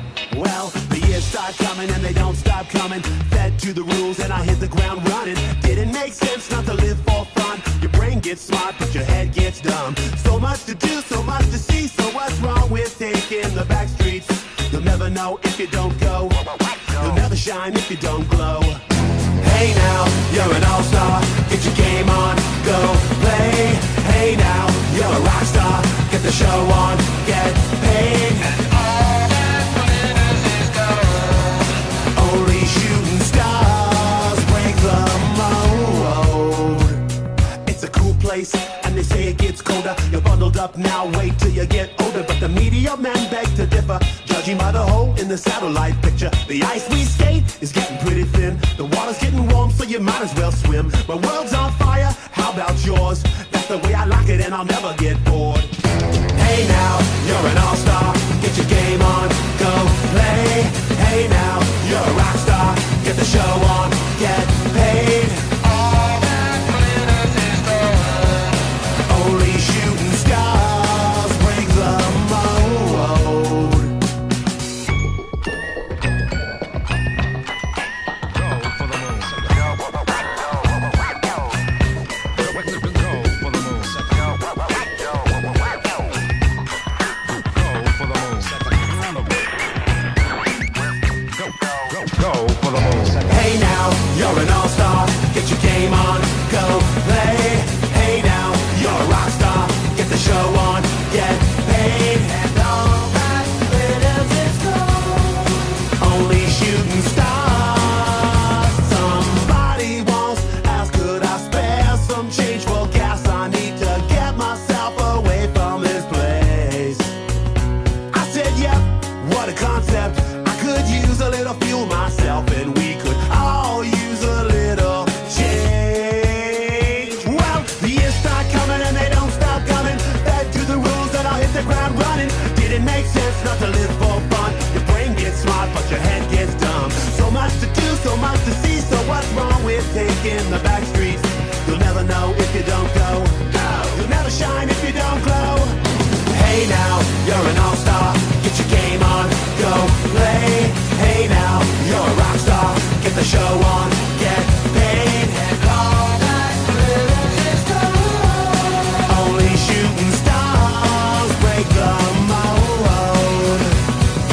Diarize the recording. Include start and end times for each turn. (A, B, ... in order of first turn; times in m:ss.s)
0:00.3-0:18.8 A
0:19.4-0:28.7 A
0:30.4-0:30.9 A
0:32.1-0:37.0 A
0:37.6-0:55.7 A
0:56.3-1:05.6 A
1:07.6-1:07.9 A
1:09.1-1:13.9 A
1:32.9-1:57.1 A
1:58.1-2:43.8 A